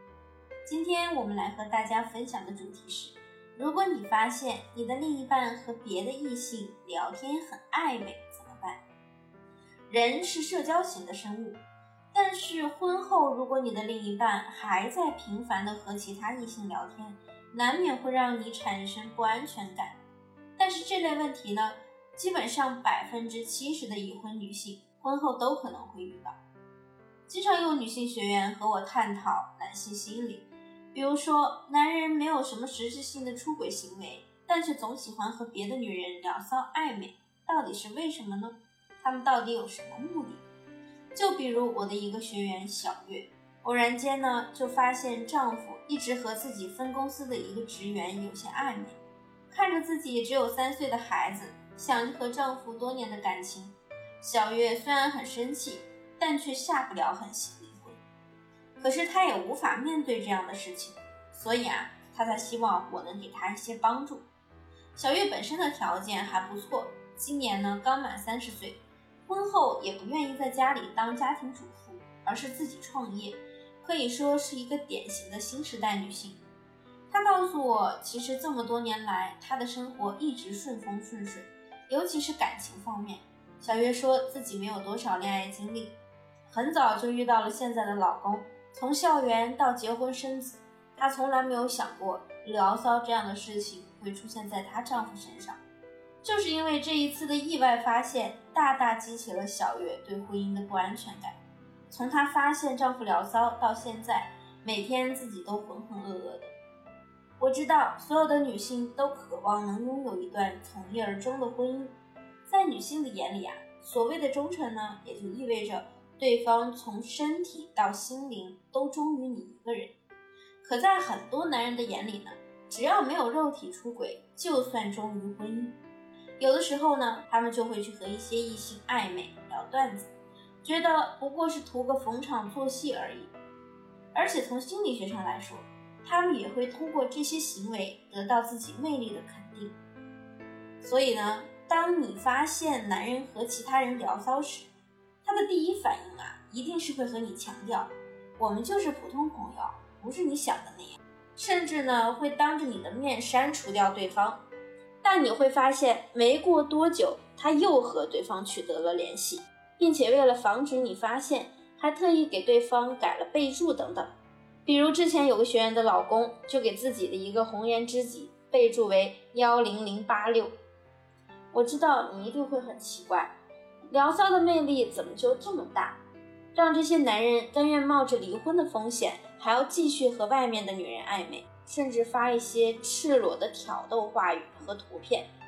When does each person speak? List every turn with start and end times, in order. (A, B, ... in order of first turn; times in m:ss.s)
0:00.6-0:08.8 A
0:09.9-0:11.6 A
0:12.1-0:20.0 A
0:20.6-0:26.4 A
0:27.3-0:40.4 A
0:41.1-0:49.0 A
0:49.5-0:58.0 A
0:58.8-1:04.2 A
1:05.0-1:16.4 A
1:17.1-1:25.9 A
1:26.5-1:35.6 A
1:36.2-1:41.4 A
1:41.9-1:46.5 A
1:47.4-1:51.9 A
1:52.4-1:59.9 A
2:00.6-2:05.8 A
2:06.4-2:10.1 A
2:10.6-2:13.3 A
2:14.1-2:19.8 A
2:20.8-2:24.7 A
2:25.2-2:34.4 A
2:35.0-2:44.1 A
2:44.6-2:50.5 A
2:51.5-2:53.3 A
2:53.9-2:56.0 A
2:56.5-3:05.3 A